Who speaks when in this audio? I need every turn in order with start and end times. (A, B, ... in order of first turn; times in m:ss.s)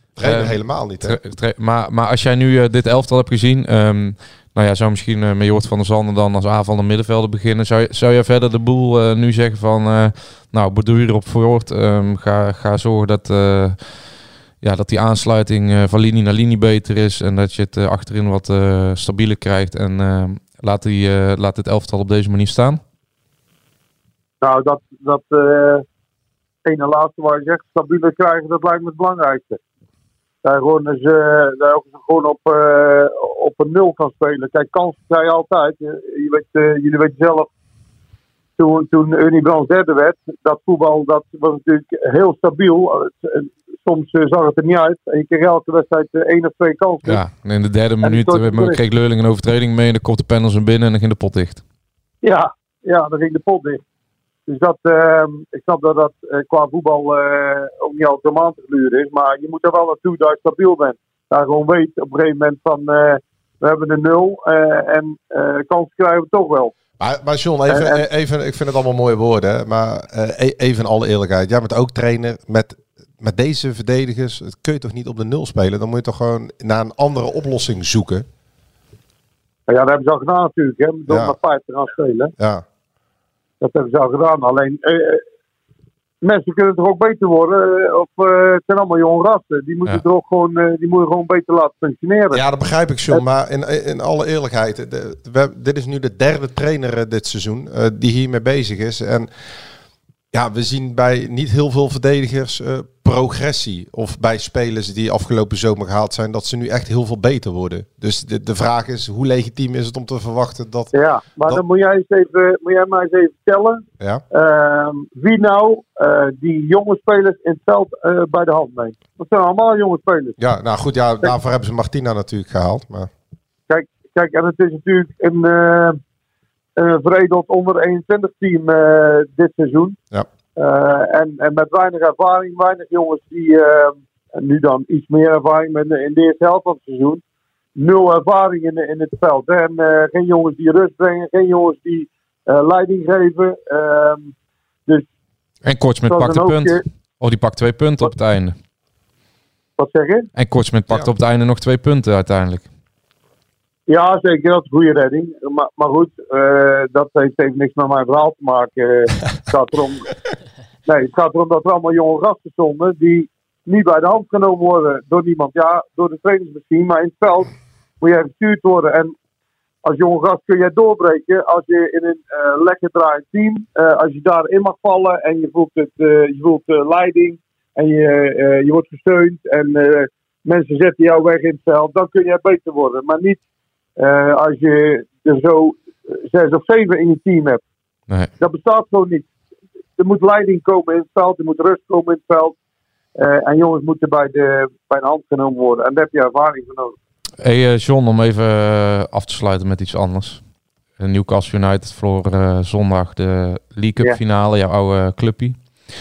0:00.2-0:01.2 A
0:00.2-0:13.8 B
0:14.6-0:22.8 B
0:24.4-0:25.8 C
0:26.6-0:29.6 C
0:30.4-0:37.5 C
0:38.6-0:47.2 C
0:47.0-0:51.6 B
0:48.0-0:48.8 C
0:52.2-0:53.8 C
0:54.5-1:06.7 C
1:07.0-1:18.2 A
1:07.7-1:08.0 C
1:19.7-1:22.3 C
1:21.1-1:21.4 A
1:22.4-1:22.6 A
1:23.6-1:25.2 C
1:26.2-1:32.4 C
1:32.3-1:39.3 A
1:40.3-1:50.9 A
1:50.9-2:00.4 C
2:00.4-2:03.1 A
2:03.7-2:06.0 C
2:06.8-2:10.0 C
2:10.6-2:17.2 C
2:17.8-2:24.3 C
2:25.6-2:28.6 B
2:26.1-2:26.8 C
2:29.8-2:30.3 C
2:30.4-2:32.6 B
2:33.9-2:40.1 C
2:40.8-2:49.1 C
2:49.8-3:03.4 C
3:04.0-3:07.6 C
3:08.4-3:09.3 C
3:10.0-3:12.6 C
3:13.2-3:16.9 C
3:17.4-3:20.4 B
3:21.0-3:25.6 B